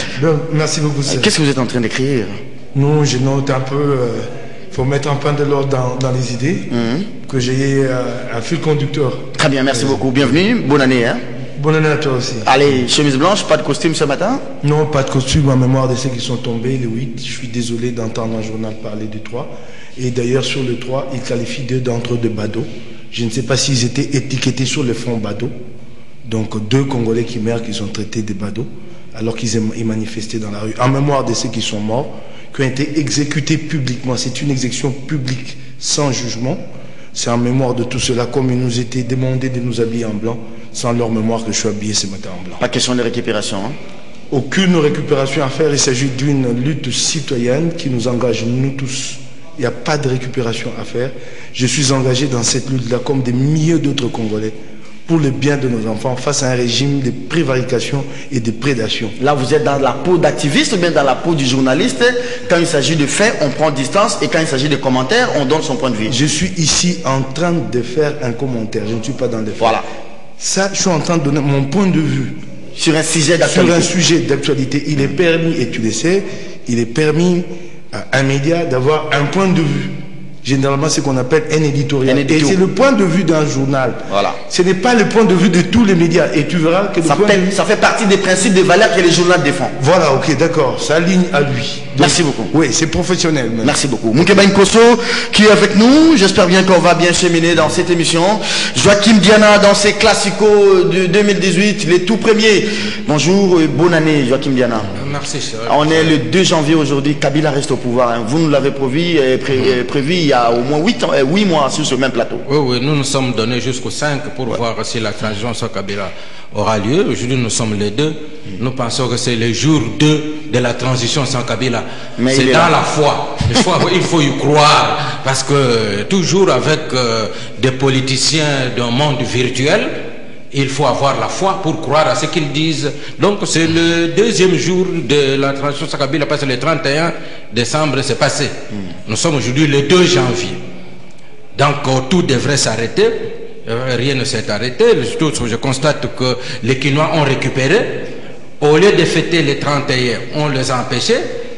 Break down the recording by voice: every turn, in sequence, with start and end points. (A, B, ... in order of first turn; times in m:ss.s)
0:00.2-0:01.3 A
0:01.1-0:02.3 B
0:02.7-0:06.7 A
0:06.7-0:07.1 B
0:07.2-0:10.0 A
0:09.4-0:11.2 B
0:11.6-0:12.5 A
0:12.4-0:14.4 B
0:14.6-0:25.5 A
0:26.2-0:36.6 A
0:37.1-0:42.6 A
0:42.6-0:43.7 B
0:44.3-0:54.6 A
0:55.0-0:59.1 A
0:59.2-1:06.2 B
1:06.1-1:09.8 A
1:10.4-1:12.4 A
1:12.8-1:13.9 B
1:13.5-1:27.5 A
1:22.0-1:22.6 B
1:24.1-1:24.4 B
1:27.0-1:29.8 B
1:29.8-1:33.8 A
1:32.0-1:32.5 B
1:33.6-1:44.9 B
1:45.0-1:46.2 C
1:45.7-1:52.4 B
1:52.4-2:10.0 C
2:02.2-2:02.7 B
2:10.5-2:20.6 C
2:21.6-2:31.2 C